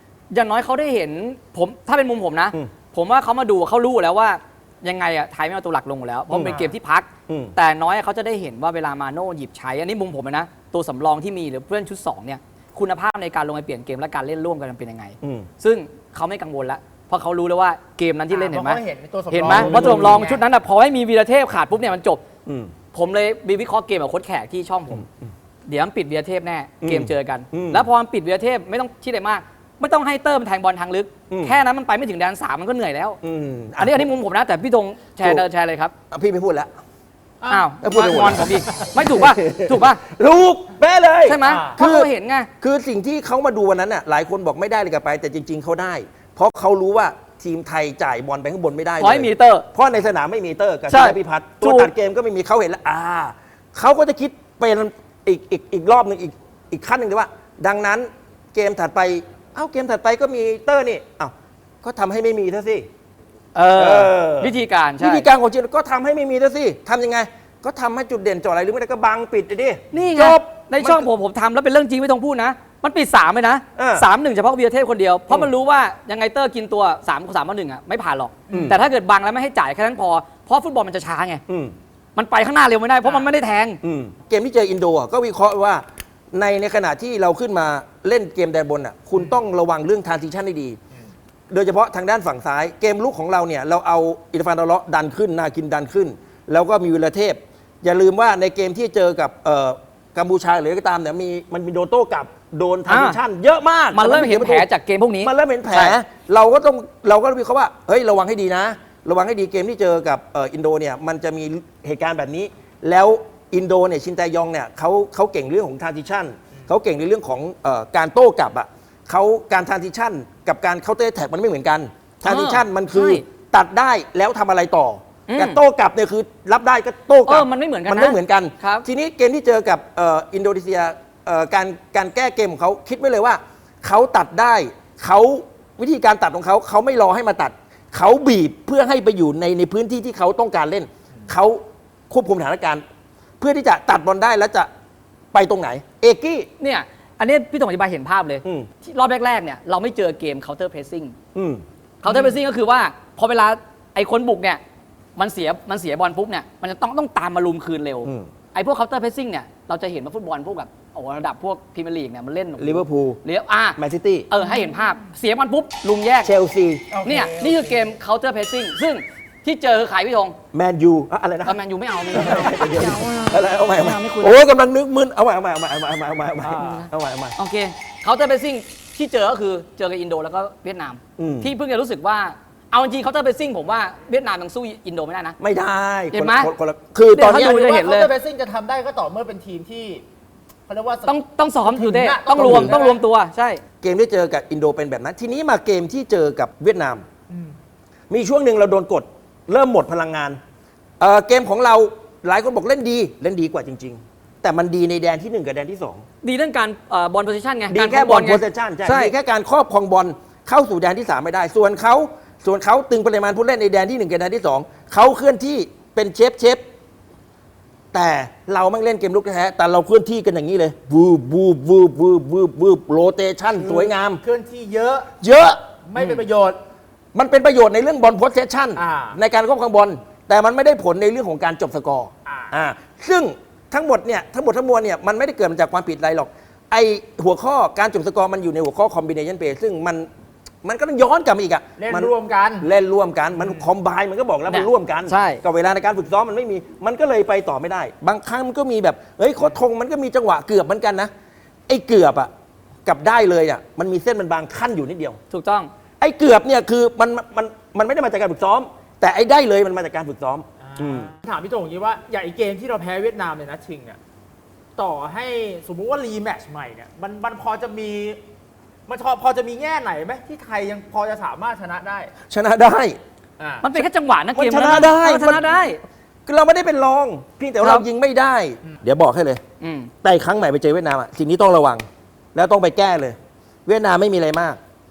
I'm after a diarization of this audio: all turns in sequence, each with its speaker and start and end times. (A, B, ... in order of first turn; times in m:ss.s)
0:00.3-0:22.2 A
0:06.3-0:06.7 B
0:07.3-0:07.6 B
0:15.2-0:15.5 B
0:18.3-0:20.4 C
0:19.5-0:20.3 B
0:22.5-0:22.7 B
0:22.9-0:25.0 A
0:25.7-0:33.2 A
0:26.8-0:27.9 B
0:31.3-0:31.6 B
0:33.2-0:34.1 B
0:33.8-0:35.9 A
0:36.1-0:36.7 B
0:37.4-0:37.7 C
0:37.5-0:40.0 A
0:37.8-0:42.1 B
0:41.3-0:42.5 A
0:41.5-0:41.8 C
0:42.6-1:02.9 B
0:49.0-0:49.7 A
0:50.9-0:51.9 A
1:03.6-1:05.3 A
1:03.8-1:11.1 B
1:09.9-1:21.4 A
1:13.8-1:14.1 B
1:18.5-1:18.8 B
1:18.5-1:18.8 C
1:21.5-1:21.8 B
1:22.2-1:23.8 A
1:23.8-1:30.8 B
1:31.5-1:44.7 B
1:42.9-1:43.2 A
1:43.9-1:46.0 A
1:45.2-2:22.8 B
2:02.2-2:03.2 A
2:05.3-2:05.6 A
2:07.3-2:08.9 A
2:23.4-2:24.7 B
2:25.3-2:26.5 B
2:26.6-2:31.2 A
2:28.4-2:28.7 B
2:31.4-2:31.6 B
2:32.0-2:34.6 A
2:35.2-2:43.8 A
2:38.0-2:38.3 B
2:42.6-2:43.2 B
2:43.8-2:44.3 B
2:44.3-2:46.3 A
2:46.2-2:46.9 B
2:46.9-2:47.7 C
2:47.0-2:50.4 A
2:50.5-2:51.6 B
2:51.4-2:54.4 A
2:52.1-2:57.4 B
2:56.6-3:05.4 A
3:01.2-3:01.5 B
3:05.4-3:07.7 B
3:06.1-3:06.5 A
3:07.1-3:08.1 A
3:07.5-3:10.0 C
3:10.7-3:11.1 C
3:11.1-3:13.6 A
3:11.7-3:13.0 C
3:12.4-3:12.8 B
3:13.8-3:17.0 B
3:17.3-3:17.6 C
3:18.1-3:20.4 B
3:21.0-3:26.0 B
3:26.2-3:29.1 A
3:27.7-3:36.6 B
3:37.9-3:44.2 B
3:43.6-3:45.1 C
3:45.2-3:45.6 B
3:45.9-3:46.6 C
3:46.0-3:46.2 A
3:47.1-4:00.1 B
3:48.8-3:49.2 C
3:52.2-3:52.5 C
4:00.6-4:11.1 B
4:01.8-4:02.7 C
4:03.4-4:03.7 C
4:04.5-4:05.4 A
4:11.7-4:12.3 B
4:12.9-4:15.2 B
4:15.3-4:15.7 A
4:16.0-4:21.1 B
4:20.7-4:24.0 C
4:24.8-4:28.2 C
4:28.9-4:32.1 C
4:32.3-4:33.0 B
4:33.4-4:33.7 C
4:33.6-4:35.8 A
4:34.4-4:35.4 B
4:36.2-4:39.4 B
4:37.6-4:37.8 A
4:39.6-4:39.9 A
4:40.0-4:41.8 B
4:42.4-4:44.6 B